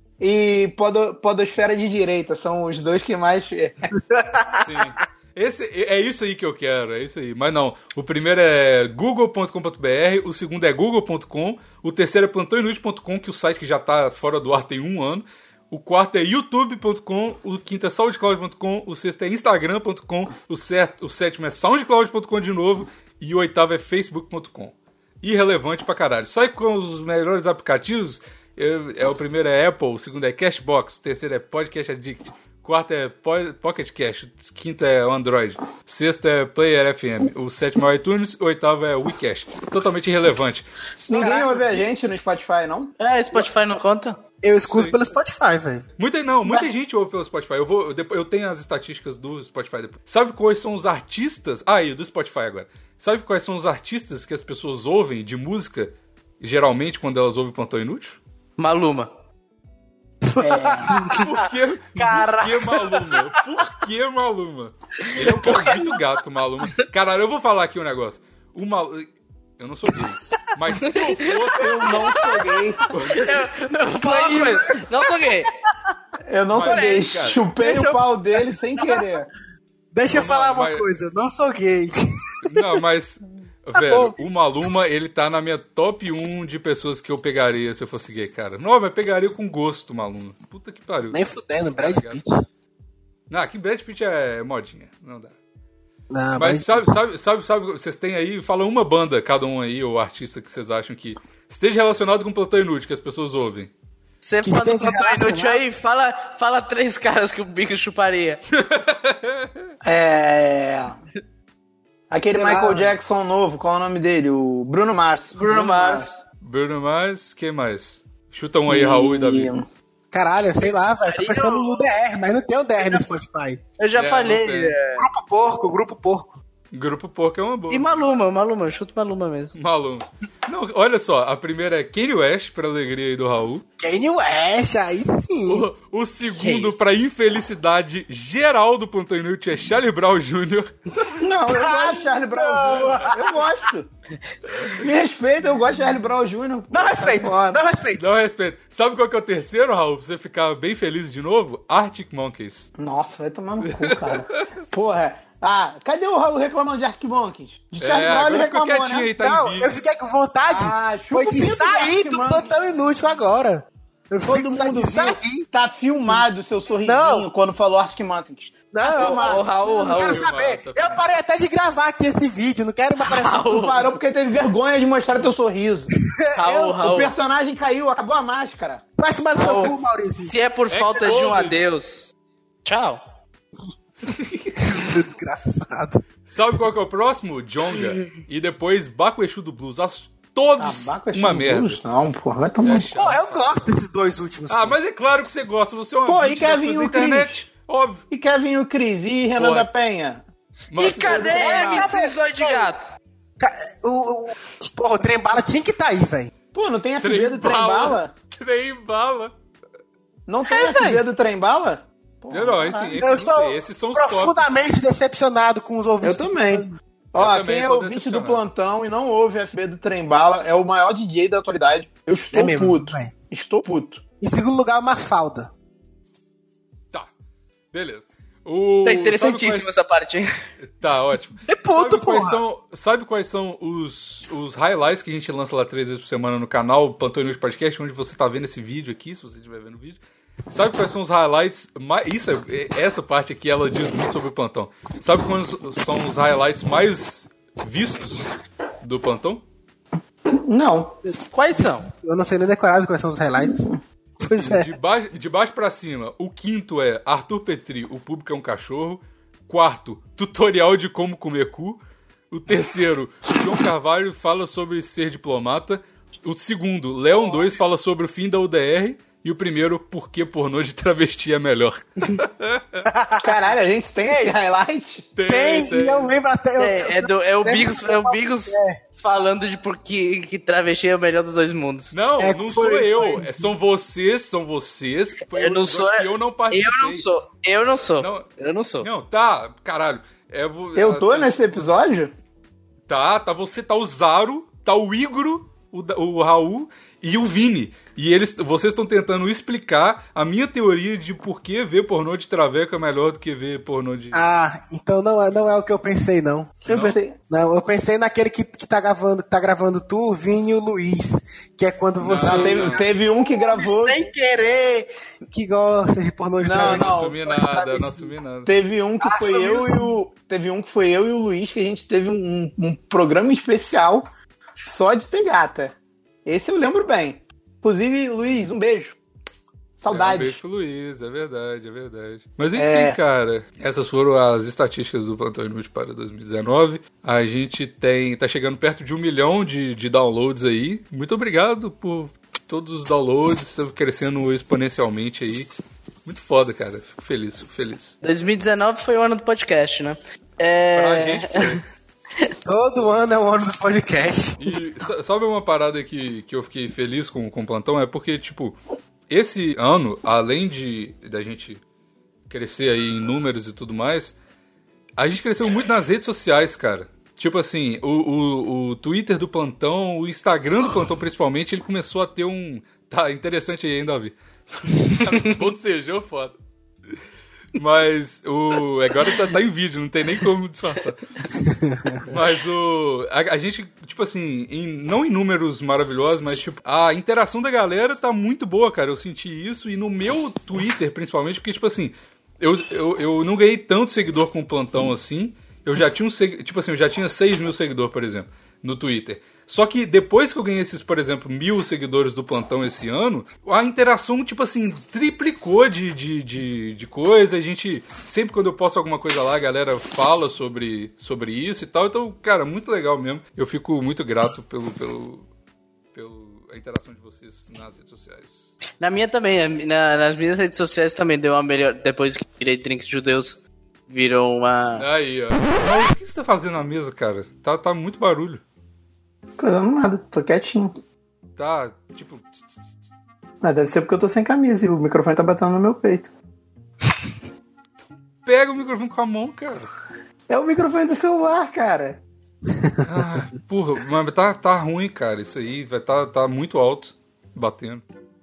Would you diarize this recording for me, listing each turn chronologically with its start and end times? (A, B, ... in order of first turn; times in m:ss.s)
0:00.2-0:03.9 A
0:04.1-0:04.6 B
0:04.6-0:40.7 C
0:41.0-0:42.9 A
0:41.1-0:41.8 B
0:43.0-0:44.2 D
0:44.4-0:45.9 B
0:44.6-0:45.0 C
0:46.0-0:58.2 C
0:58.6-0:59.1 D
1:00.2-1:01.4 B
1:00.4-1:01.0 A
1:01.1-1:09.1 C
1:01.9-1:03.3 B
1:05.2-1:05.8 B
1:05.2-1:05.6 D
1:09.6-1:12.2 C
1:10.8-1:11.3 D
1:11.5-1:12.9 A
1:12.9-1:13.4 C
1:13.1-1:15.5 D
1:14.0-1:14.8 B
1:16.3-1:19.3 A
1:16.5-1:17.4 C
1:16.7-1:17.0 D
1:17.6-1:19.0 B
1:19.9-1:21.9 B
1:20.1-1:20.9 C
1:22.4-1:31.2 C
1:23.8-1:24.2 B
1:31.1-1:32.4 B
1:31.8-1:32.2 C
1:33.3-1:35.4 C
1:36.1-1:36.9 B
1:36.4-1:43.7 C
1:44.2-1:48.4 D
1:44.4-1:45.6 B
1:48.5-1:49.6 C
1:49.8-1:51.0 A
1:52.1-1:56.1 A
1:52.3-1:53.0 B
1:55.4-1:56.2 D
1:56.4-1:59.5 C
1:58.7-1:59.7 A
2:00.1-2:03.6 B
2:00.6-2:01.9 D
2:03.8-2:05.0 D
2:04.0-2:04.8 C
2:05.0-2:06.4 B
2:06.7-2:08.0 C
2:07.7-2:09.6 D
2:09.6-2:13.6 C
2:13.8-2:15.7 B
2:15.5-2:21.1 C
2:16.4-2:16.8 D
2:21.2-2:23.9 A
2:21.5-2:23.6 B
2:24.5-2:24.8 C
2:24.8-2:27.6 A
2:26.7-2:28.0 B
2:28.0-2:32.7 C
2:32.8-2:39.1 A
2:33.6-2:34.5 C
2:37.8-2:39.7 C
2:39.2-2:45.5 B
2:40.5-2:42.5 A
2:44.2-2:49.4 A
2:46.8-2:47.3 B
2:48.7-2:53.5 B
2:48.8-2:50.3 D
2:49.9-2:51.1 C
2:53.0-2:53.9 D
2:53.4-2:58.8 A
2:56.4-2:57.2 D
2:59.0-3:00.3 B
2:59.4-3:02.1 D
3:00.7-3:01.6 C
3:02.6-3:03.0 D
3:04.1-3:04.6 C
3:04.6-3:06.0 B
3:06.3-3:11.8 C
3:10.6-3:13.0 A
3:12.6-3:13.7 C
3:12.7-3:14.8 B
3:14.5-3:18.0 C
3:16.1-3:17.5 A
3:18.1-3:20.2 A
3:19.4-3:19.7 C
3:20.7-3:21.4 C
3:20.8-3:22.8 D
3:20.8-3:22.0 A
3:21.3-3:22.7 B
3:23.4-3:26.3 B
3:26.5-3:28.1 A
3:27.0-3:29.3 C
3:30.3-3:33.0 A
3:30.5-3:31.0 B
3:32.3-3:34.4 C
3:33.0-3:36.8 B
3:36.0-3:44.0 A
3:37.2-3:38.4 C
3:42.3-3:43.1 B
3:44.2-3:45.5 B
3:47.7-3:49.7 C
3:48.8-3:50.3 D
3:50.6-4:00.0 C
3:51.5-3:52.4 B
4:00.5-4:09.4 C
4:10.5-4:11.0 A
4:11.3-4:11.9 D
4:11.9-4:13.7 B
4:13.4-4:13.8 A
4:14.2-4:14.7 B
4:14.3-4:32.8 C
4:32.9-4:33.3 B
4:33.2-4:35.1 A
4:34.1-4:34.3 B
4:35.2-4:36.1 C
4:35.3-4:38.8 B
4:36.6-4:41.9 D
4:41.9-4:47.0 C
4:42.2-4:43.4 B
4:45.3-4:48.9 D
4:48.0-4:48.3 C
4:48.8-4:51.7 C
4:50.8-4:52.1 A
4:52.9-5:04.2 C
5:04.1-5:06.6 B
5:06.7-5:07.2 A
5:06.7-5:07.0 C
5:07.3-5:18.0 B
5:12.0-5:12.8 C
5:12.2-5:14.0 A
5:16.4-5:17.3 A
5:16.5-5:18.5 C
5:18.5-5:24.0 A
5:19.0-5:19.9 B
5:24.6-5:25.7 A
5:26.3-5:29.0 A
5:29.8-5:30.4 A
5:29.9-5:45.5 C
5:32.6-5:33.0 A
5:46.0-5:48.0 C
5:48.0-5:51.6 D
5:50.8-5:51.6 C
5:52.4-5:54.4 B
5:54.4-5:58.6 C
5:59.1-6:01.6 C
6:02.3-6:04.2 C
6:05.0-6:16.3 C
6:17.6-6:21.1 C
6:21.4-6:22.0 B
6:22.1-6:55.3 C
6:55.9-6:58.5 C
6:58.8-7:04.8 D
7:04.8-7:08.4 C
7:09.4-7:10.7 A
7:11.4-7:12.4 C
7:13.4-7:16.1 A
7:18.2-7:19.7 C
7:20.3-7:22.0 A
7:22.8-7:27.8 C